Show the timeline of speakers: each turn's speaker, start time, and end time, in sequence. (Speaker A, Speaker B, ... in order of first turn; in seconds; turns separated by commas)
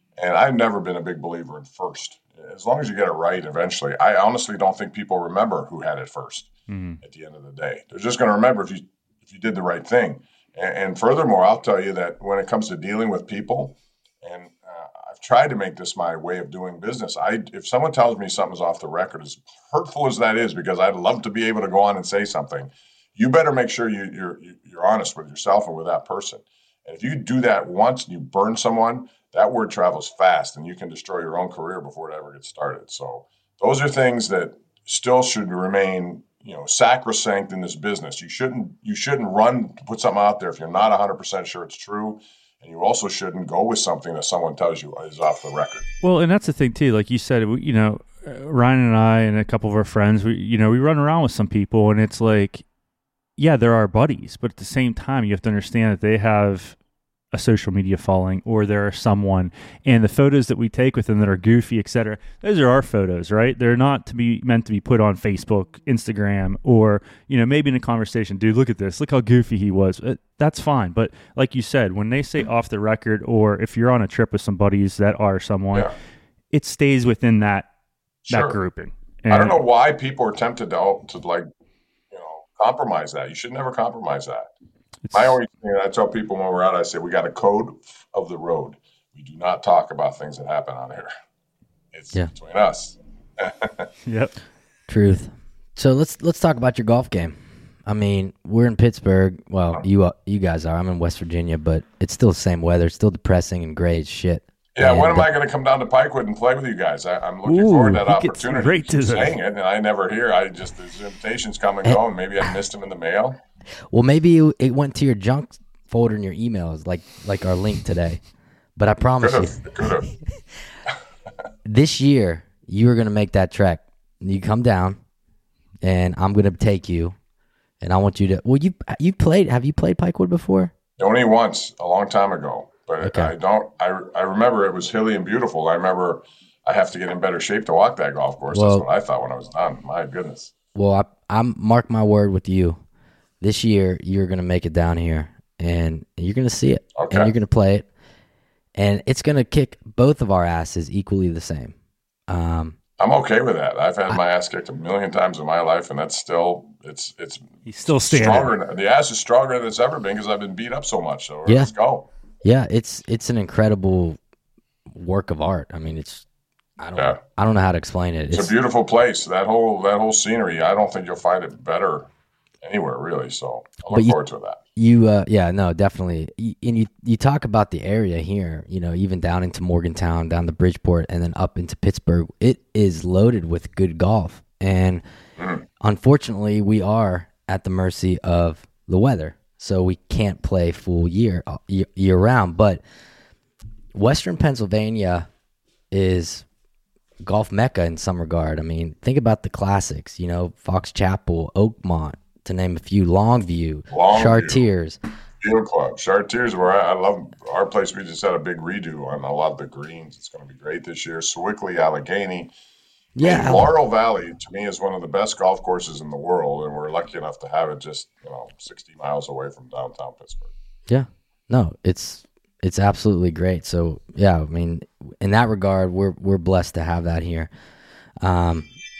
Speaker A: 0.2-6.5, Speaker B: 6.7-7.0, Speaker A: 7.0-45.9, Speaker B: 46.0-52.6, Speaker B: 53.4-56.8, Speaker B: 57.3-75.9, Speaker B: 76.5-77.7, Speaker A: 78.3-78.6, Speaker B: 78.3-79.6, Speaker A: 79.3-81.5, Speaker A: 82.1-84.5, Speaker B: 85.0-85.3, Speaker A: 85.1-91.1, Speaker A: 91.9-93.9, Speaker B: 94.0-94.3, Speaker C: 94.9-105.3, Speaker A: 104.7-113.4, Speaker B: 107.5-109.3, Speaker C: 113.9-118.2, Speaker C: 118.8-119.6, Speaker A: 119.2-120.1, Speaker C: 121.6-125.0, Speaker C: 125.8-127.1, Speaker C: 127.8-130.7, Speaker A: 131.0-140.5, Speaker C: 133.0-133.3, Speaker C: 138.5-138.8, Speaker C: 140.7-142.8, Speaker C: 143.4-147.9, Speaker A: 146.9-147.3, Speaker C: 148.8-151.7, Speaker C: 152.3-152.8, Speaker A: 153.0-162.1, Speaker B: 157.7-158.5, Speaker C: 161.4-161.7, Speaker C: 162.4-164.2, Speaker C: 164.9-166.2, Speaker C: 166.8-168.5, Speaker A: 168.3-172.1, Speaker A: 172.6-174.6, Speaker C: 173.9-174.2, Speaker C: 174.8-185.0, Speaker A: 185.4-185.6, Speaker C: 185.8-192.8, Speaker C: 193.9-195.3, Speaker C: 195.9-196.4, Speaker C: 197.2-205.0, Speaker A: 203.9-204.6, Speaker A: 205.4-212.5, Speaker C: 213.2-213.7, Speaker A: 213.2-220.5, Speaker C: 220.9-227.5, Speaker C: 228.2-228.7